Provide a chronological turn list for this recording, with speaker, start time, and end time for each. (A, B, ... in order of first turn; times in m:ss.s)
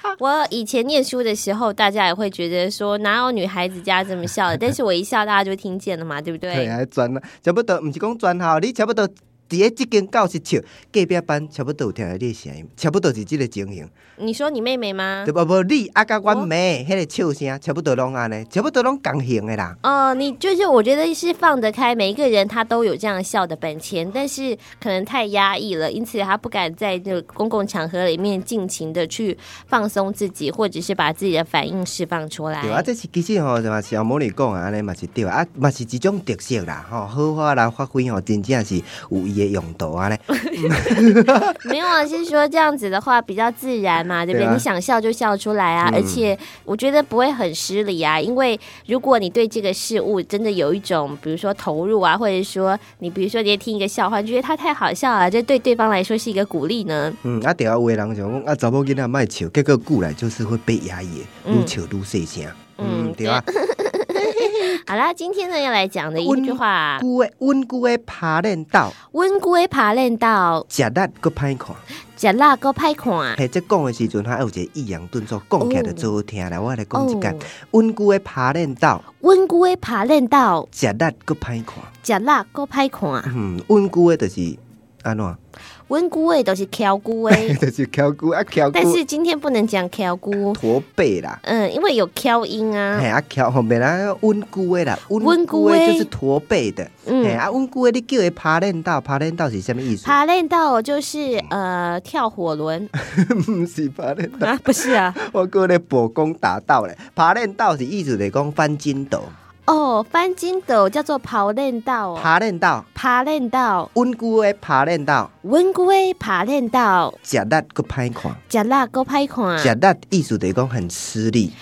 0:00.2-0:06.8 A
0:06.5-0:13.9 B
0:14.2-0:15.3 A
0:15.2-0:19.8 B
0:19.8-0:32.9 A
0:32.6-0:41.7 B
0:40.4-0:41.1 A
0:41.6-0:57.2 A
0:44.3-0:44.7 B
0:45.8-0:46.3 B
0:57.2-1:03.5 B
1:01.4-1:01.7 A
1:02.8-1:07.1 A
1:04.2-1:04.8 B
1:06.2-1:09.0 B
1:09.1-1:10.7 A
1:10.7-1:11.8 B
1:12.2-1:13.4 A
1:13.4-1:19.0 B
1:15.6-1:16.1 A
1:16.9-1:17.5 A
1:19.2-1:20.7 A
1:20.7-1:21.9 B
1:22.0-1:23.3 A
1:23.3-1:25.4 B
1:25.9-1:27.6 A
1:27.3-1:29.0 B
1:28.7-1:30.6 A
1:30.5-1:31.4 B
1:31.4-1:33.1 A
1:32.9-1:40.2 B
1:35.2-1:36.1 A
1:37.1-1:37.4 A
1:40.0-1:42.9 A
1:43.0-1:49.3 B
1:44.4-1:45.2 A
1:49.7-1:52.3 A
1:52.2-1:52.9 B
1:52.9-1:53.9 A
1:54.0-1:55.3 B
1:55.4-1:57.2 A
1:57.2-1:58.4 B
1:58.5-1:59.7 A
1:59.6-2:01.5 B